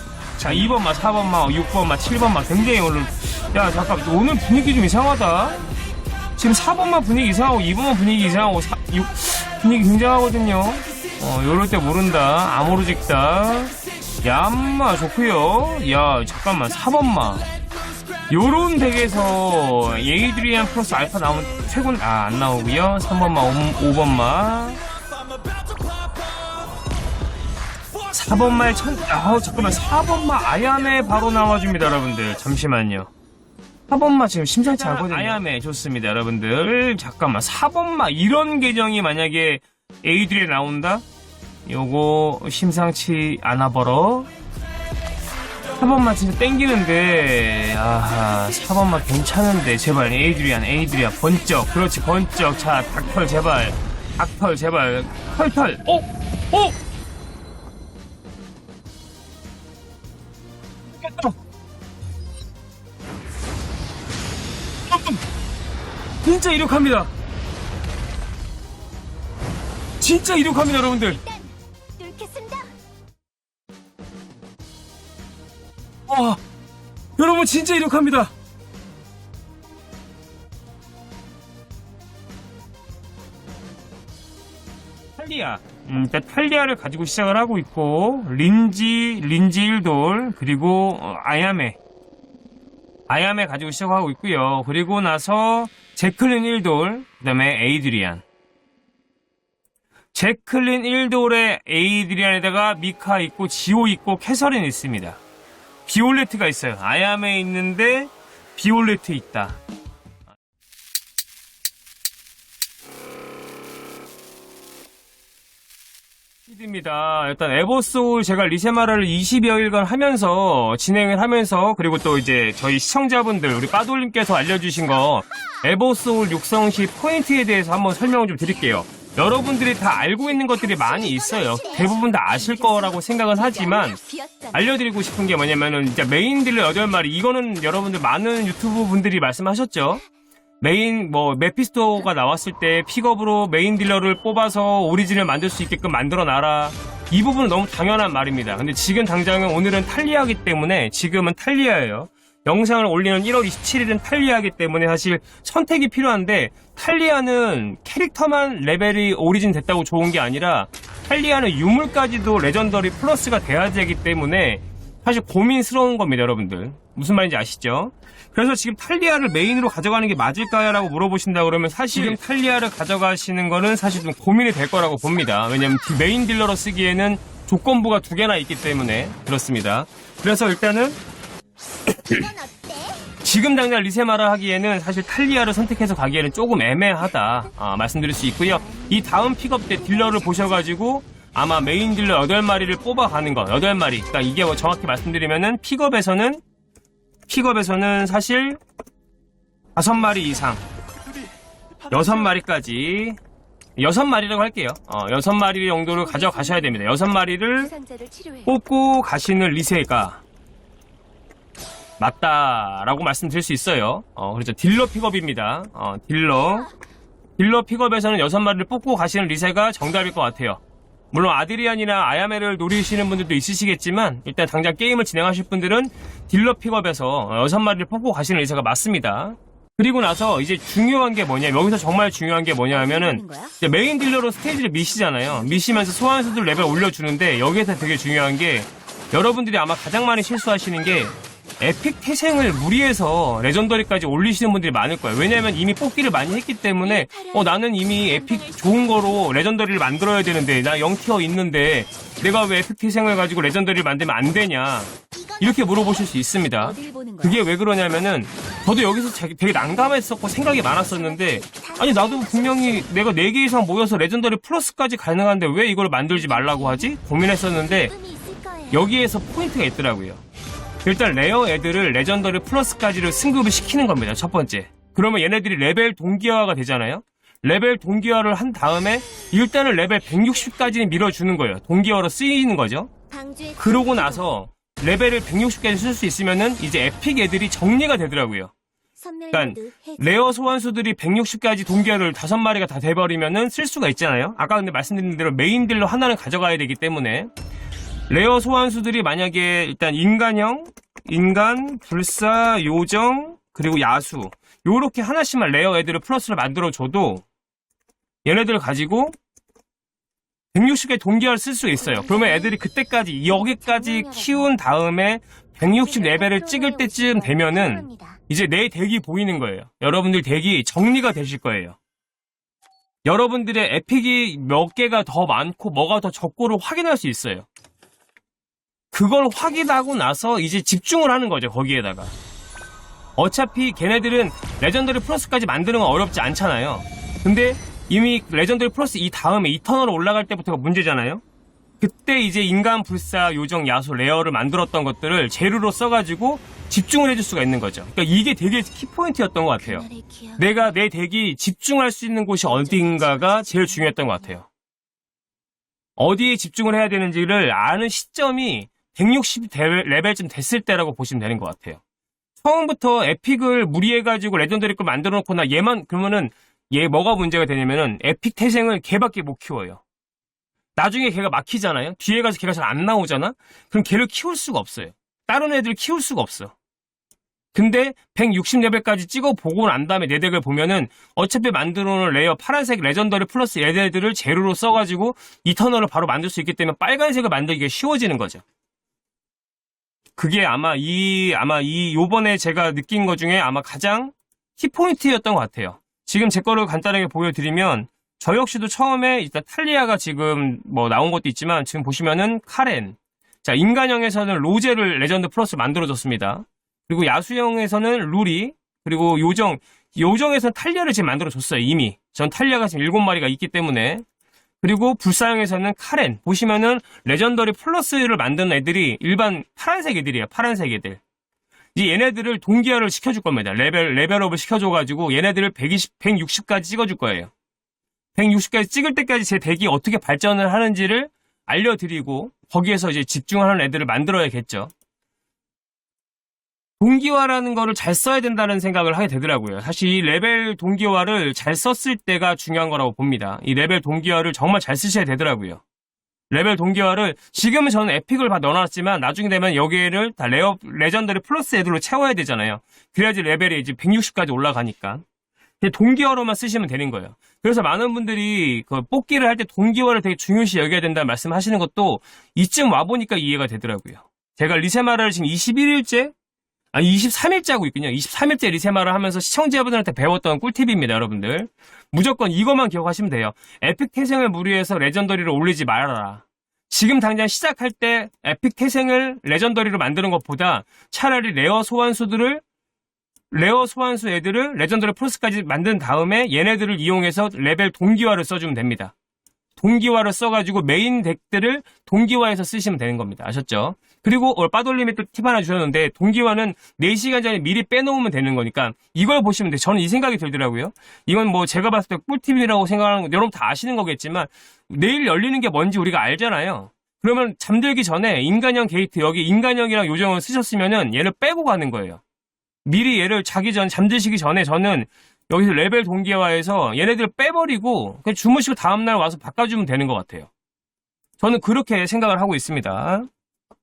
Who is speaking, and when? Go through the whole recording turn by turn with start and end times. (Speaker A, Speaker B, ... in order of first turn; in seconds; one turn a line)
Speaker A: 0.4-5.6
Speaker A: 6.4-17.4
Speaker A: 18.3-24.8
Speaker A: 28.1-33.1
Speaker A: 33.9-41.0
Speaker A: 41.6-44.3
Speaker A: 45.8-56.7
Speaker A: 61.0-61.3
Speaker A: 64.9-65.2
Speaker A: 66.2-67.1
Speaker A: 70.0-71.2
Speaker B: 71.1-72.7
Speaker A: 76.1-76.4
Speaker A: 77.2-78.3
Speaker A: 85.2-91.8
Speaker A: 93.1-98.2
Speaker A: 100.1-105.2
Speaker A: 105.8-109.6
Speaker A: 116.5-134.0
Speaker B: 130.1-134.7
Speaker A: 134.5-140.0
Speaker A: 140.6-181.0
Speaker B: 182.1-183.0
Speaker A: 183.2-196.4
Speaker B: 188.4-190.6
Speaker A: 197.3-198.6
Speaker A: 199.8-200.6
Speaker A: 201.9-203.2
Speaker A: 203.8-207.7
Speaker B: 205.9-206.8
Speaker B: 207.6-208.5
Speaker A: 208.4-210.2
Speaker A: 212.0-216.7
Speaker A: 217.4-220.6
Speaker A: 221.1-267.9
Speaker B: 232.7-233.5
Speaker B: 235.4-235.7
Speaker B: 246.8-249.1
Speaker B: 255.1-257.4
Speaker B: 260.6-262.9
Speaker B: 266.1-266.9
Speaker B: 267.5-268.9
Speaker A: 268.7-270.2
Speaker A: 270.8-282.9
Speaker B: 283.1-284.2
Speaker A: 283.6-288.5
Speaker B: 289.0-290.3
Speaker A: 289.3-297.3
Speaker A: 298.1-307.2
Speaker A: 308.2-309.1
Speaker A: 310.5-321.8
Speaker B: 311.8-312.6
Speaker B: 313.3-314.5
Speaker B: 315.6-318.2
Speaker A: 323.1-327.4
Speaker A: 328.9-332.1
Speaker A: 333.2-341.2
Speaker A: 341.8-354.4
Speaker B: 349.6-350.6
Speaker B: 352.4-354.2
Speaker A: 356.0-361.8
Speaker A: 362.4-369.8
Speaker A: 370.8-376.5
Speaker A: 377.5-388.4
Speaker A: 390.1-414.0
Speaker A: 414.6-421.0
Speaker A: 421.7-427.3
Speaker A: 428.1-434.7
Speaker A: 436.8-445.6
Speaker A: 446.3-455.0
Speaker A: 455.6-466.1
Speaker A: 466.7-482.4
Speaker A: 483.3-488.9
Speaker A: 489.6-512.0
Speaker A: 512.6-520.3
Speaker A: 521.2-523.1